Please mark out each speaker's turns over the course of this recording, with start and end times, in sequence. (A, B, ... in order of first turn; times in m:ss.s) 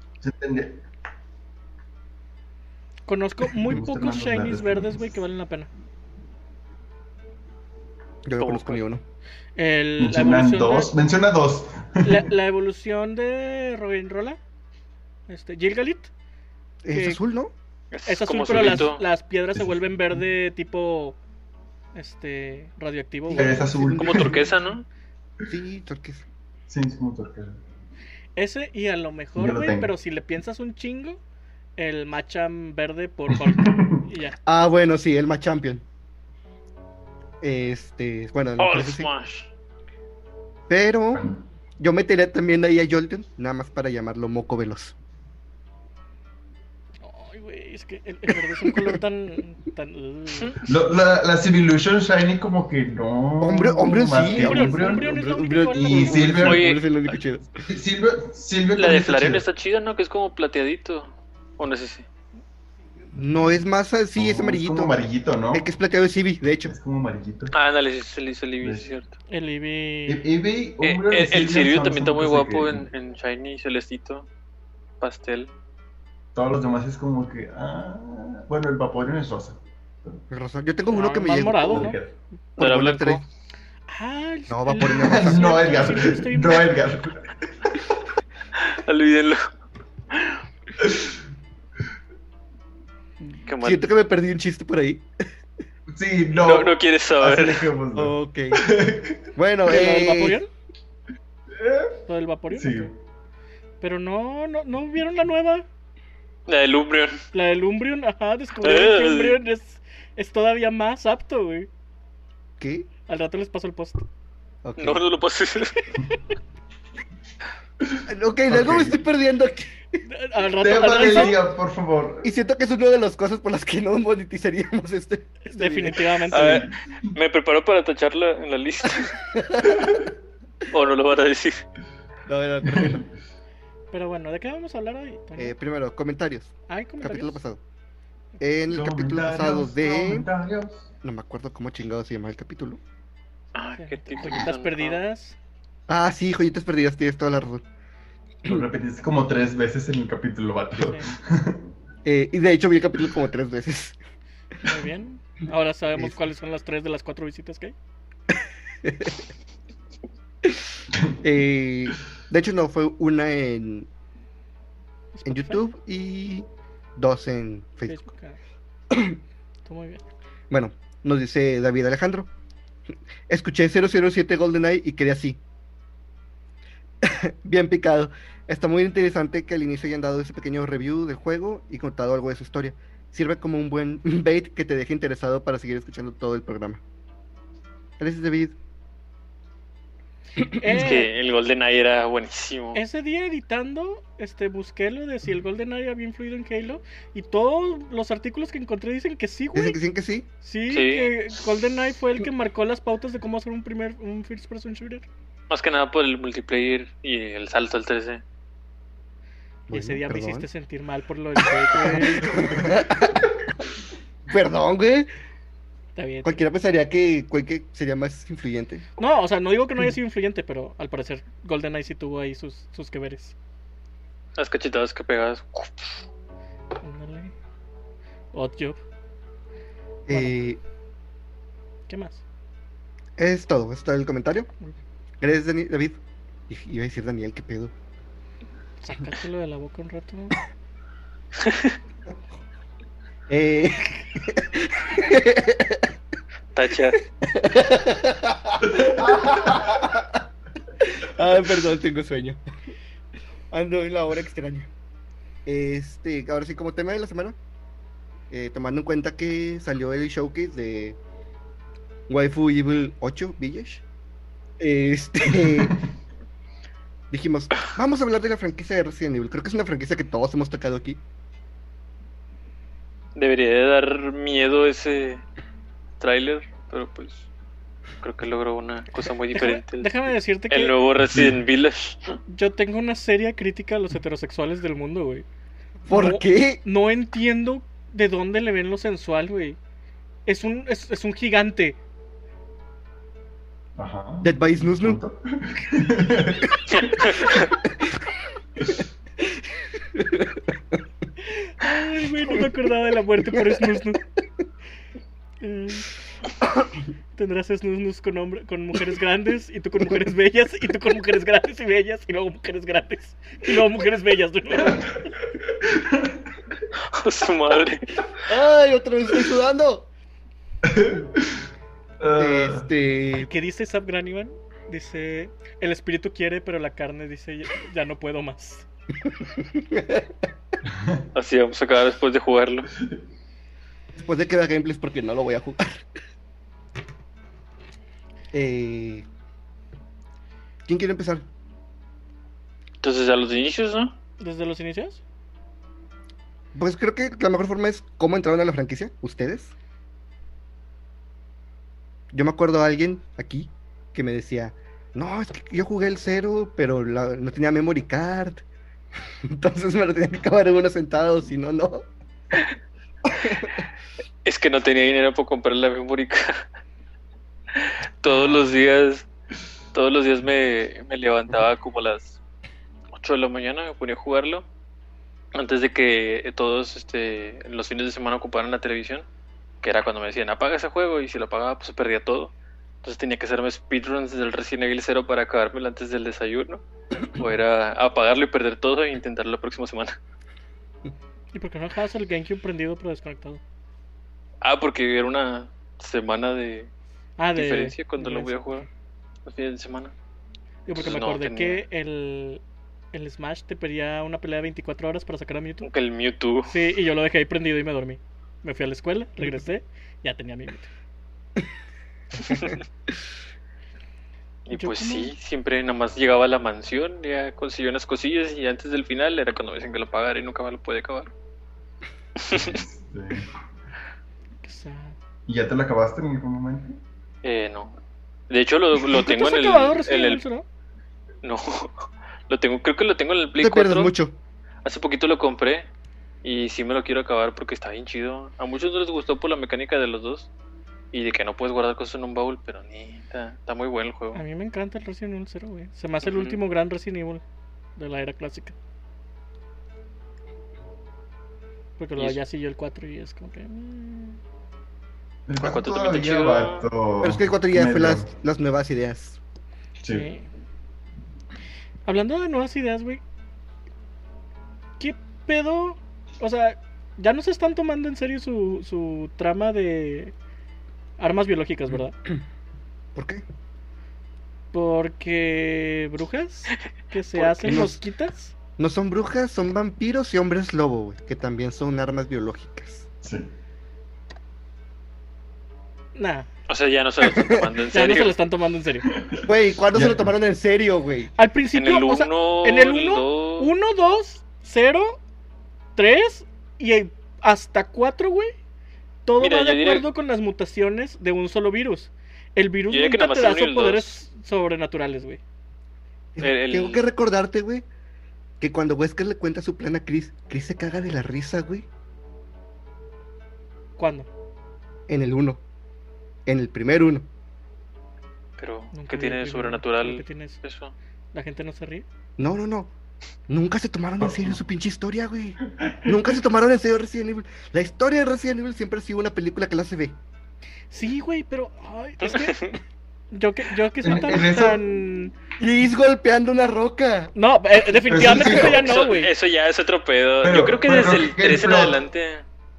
0:00.2-0:00.8 A
0:03.1-0:05.7 B
0:03.6-0:05.1 A
0:08.2-0:09.0 C
0:08.4-0:08.8 D
0:09.6-0:10.9 B
0:10.0-0:12.3 A
0:12.0-0:14.4 B
0:15.3-0:16.1 B
0:16.8-0:17.5 C
0:16.9-0:17.2 B
0:17.9-0:19.0 D
0:18.0-0:21.2 B
0:18.5-0:18.9 A
0:19.5-0:20.2 A
0:21.9-0:23.6 B
0:23.3-0:24.5 C
0:23.3-0:24.4 A
0:23.9-0:24.8 D
0:25.5-0:26.2 C
0:26.7-0:27.6 A
0:28.4-0:31.2 B
0:29.4-0:29.9 A
0:31.8-0:34.4 B
0:33.3-0:34.0 A
0:34.4-0:35.8 C
0:37.4-0:39.1 C
0:38.6-0:39.5 D
0:40.7-0:41.2 C
0:41.1-0:41.4 A
0:41.8-0:44.9 C
0:47.0-0:50.6 B
0:48.6-0:49.0 C
0:50.4-0:50.8 D
0:50.6-0:55.1 A
0:53.4-0:57.6 C
0:54.3-0:56.3 B
0:55.7-0:56.8 A
0:56.3-0:56.8 D
0:57.7-0:59.4 A
0:58.7-1:02.0 D
1:03.1-1:06.7 C
1:04.1-1:05.7 A
1:06.6-1:07.5 A
1:07.5-1:09.1 D
1:08.6-1:08.9 A
1:09.3-1:10.2 B
1:10.1-1:12.9 A
1:10.8-1:14.3 D
1:15.0-1:15.5 D
1:16.3-1:20.2 A
1:20.3-1:21.9 C
1:20.9-1:22.0 B
1:21.6-1:22.1 A
1:22.6-1:23.2 D
1:22.6-1:23.2 C
1:23.9-1:26.7 B
1:24.5-1:26.1 C
1:24.8-1:27.8 A
1:28.6-1:29.4 D
1:30.1-1:30.4 D
1:30.8-1:31.1 A
1:33.5-1:33.9 D
1:33.6-1:35.1 C
1:35.9-1:39.2 A
1:36.4-1:37.7 D
1:37.9-1:38.7 C
1:39.4-1:40.4 C
1:39.6-1:40.5 B
1:41.5-1:41.9 A
1:42.1-1:42.9 B
1:42.5-1:42.9 A
1:43.8-1:45.6 B
1:46.5-1:47.2 D
1:47.3-1:51.7 B
1:48.6-1:49.4 D
1:52.6-1:52.9 C
1:53.1-1:54.0 B
1:54.6-1:55.0 C
1:54.8-1:55.9 D
1:57.8-1:59.0 A
1:58.1-2:00.0 C
2:00.1-2:01.4 B
2:00.6-2:02.3 A
2:02.2-2:06.1 C
2:05.4-2:06.6 B
2:06.3-2:06.7 A
2:06.3-2:09.2 D
2:09.3-2:10.0 C
2:10.7-2:11.6 D
2:12.3-2:13.0 C
2:12.6-2:13.1 A
2:13.9-2:15.5 B
2:15.4-2:17.6 C
2:16.7-2:17.4 B
2:18.4-2:20.3 C
2:18.7-2:20.9 A
2:21.0-2:22.8 C
2:23.5-2:25.0 D
2:23.8-2:25.4 B
2:25.9-2:27.6 C
2:28.4-2:31.6 A
2:30.8-2:31.1 B
2:32.0-2:34.0 C
2:34.6-2:37.7 B
2:38.8-2:39.2 C
2:41.2-2:43.9 C
2:45.1-2:45.6 B
2:45.2-2:48.0 C
2:47.8-2:48.4 B
2:48.9-2:49.2 C
2:49.6-2:50.0 B
2:50.5-2:52.3 C
2:53.3-2:55.4 C
2:57.0-3:06.8 C
3:08.0-3:08.5 C
3:10.4-3:10.8 C
3:10.5-3:11.1 B
3:10.7-3:12.8 D
3:12.7-3:19.8 B
3:19.5-3:20.3 C
3:20.4-3:25.0 B
3:20.7-3:21.1 D
3:25.5-3:28.2 D
3:29.7-3:30.5 C
3:29.7-3:32.5 B
3:31.7-3:33.3 C
3:34.3-3:35.1 C
3:36.0-3:36.4 B
3:36.2-3:38.8 C
3:39.0-3:43.3 B
3:44.4-3:46.0 D
3:46.8-3:47.3 B
3:48.3-3:48.8 B
3:50.1-3:50.6 C
3:50.1-3:50.4 B
3:51.9-3:52.2 B
3:53.2-3:54.5 C
3:55.2-3:57.7 C
3:58.8-4:00.4 B
4:01.4-4:01.7 D
4:03.3-4:05.9 C
4:06.5-4:07.0 D
4:07.2-4:10.2 C
4:08.7-4:09.7 A
4:10.8-4:12.4 C
4:13.5-4:14.7 C
4:15.4-4:17.4 C
4:18.3-4:21.0 C
4:22.1-4:23.8 C
4:24.6-4:25.8 C
4:25.4-4:25.7 A
4:27.1-4:31.0 C
4:33.2-4:35.2 D
4:36.0-4:37.3 D
4:38.0-4:42.2 D
4:39.3-4:40.7 B
4:41.1-4:41.4 A
4:42.3-4:45.2 B
4:45.8-4:46.6 C
4:45.9-4:49.6 B
4:50.2-4:51.8 B
4:53.8-4:57.4 A
4:54.2-4:55.0 C
4:56.7-4:57.4 D
4:59.8-5:00.8 C
5:01.2-5:04.0 B
5:03.3-5:03.8 C
5:05.4-5:05.9 B
5:07.1-5:15.0 B
5:15.5-5:16.2 A
5:16.8-5:18.0 D
5:18.3-5:19.9 C
5:20.6-5:21.4 A
5:22.0-5:22.7 A
5:22.1-5:23.3 C
5:23.1-5:28.7 B
5:29.1-5:30.1 C
5:30.7-5:31.0 A
5:31.1-5:32.7 D
5:33.9-5:35.8 C
5:38.3-5:39.0 C
5:40.6-5:41.2 C
5:42.8-5:43.9 D
5:44.2-5:45.0 B
5:46.5-5:49.5 C
5:52.1-5:58.4 C
5:59.2-6:01.9 C
6:03.2-6:03.6 C
6:04.2-6:06.4 D
6:07.5-6:09.1 D
6:09.7-6:12.2 D
6:12.9-6:14.4 D
6:15.3-6:19.0 D
6:19.6-6:22.3 D
6:22.8-6:29.9 D
6:31.3-6:33.4 B
6:34.4-6:36.7 D
6:37.2-6:38.7 B
6:37.3-6:38.6 D
6:39.2-6:39.9 D
6:40.6-6:42.4 B
6:40.8-6:41.6 D
6:42.9-6:45.7 B
6:45.6-6:46.5 D
6:46.5-6:50.7 B
6:52.3-6:52.6 D
6:54.4-7:01.1 D
6:54.5-6:55.1 B
7:02.2-7:02.6 D
7:02.3-7:03.3 A
7:04.4-7:04.9 B
7:05.3-7:06.8 A
7:07.2-7:07.8 D
7:08.3-7:10.2 D
7:08.9-7:10.4 B
7:11.2-7:13.9 D
7:13.4-7:14.2 C
7:14.6-7:15.7 D
7:16.2-7:20.3 D
7:20.9-7:24.2 D
7:24.1-7:27.2 B
7:26.0-7:26.4 D
7:27.8-7:28.5 B
7:31.8-7:34.2 B
7:35.3-7:38.1 A
7:35.4-7:36.7 D
7:37.0-7:39.2 C
7:39.8-7:40.1 A
7:39.9-7:40.3 B
7:41.8-7:43.0 B
7:44.8-7:50.1 B
7:51.0-7:51.9 B
7:52.9-7:53.2 C
7:54.5-7:58.3 B
7:57.1-7:57.6 D
7:57.4-7:57.8 C
7:58.6-8:02.8 C
8:03.0-8:03.3 A
8:05.9-8:06.3 B
8:06.5-8:08.2 D
8:07.0-8:07.5 C
8:07.7-8:08.9 B
8:08.9-8:10.1 A
8:09.2-8:11.1 C
8:11.2-8:15.0 B
8:11.5-8:13.5 D
8:15.8-8:18.3 B
8:19.0-8:25.2 B
8:19.2-8:19.8 D
8:22.7-8:24.0 D
8:26.2-8:27.6 C
8:26.2-8:26.8 D
8:28.4-8:31.7 C
8:33.8-8:34.1 B
8:34.9-8:35.4 C
8:36.2-8:37.1 C
8:38.4-8:40.7 D
8:38.7-8:40.4 B
8:41.1-8:41.8 B
8:42.2-8:42.7 C
8:43.3-8:50.0 C
8:44.0-8:44.4 A
8:45.6-8:46.0 A
8:50.7-8:52.5 B
8:52.0-8:52.6 D
8:53.1-8:55.1 B
8:53.8-8:54.6 A
8:55.4-8:57.1 C
8:57.1-8:59.1 B
8:57.9-8:58.8 A
8:58.0-8:58.4 C
8:58.3-9:02.2 D
9:00.2-9:01.8 A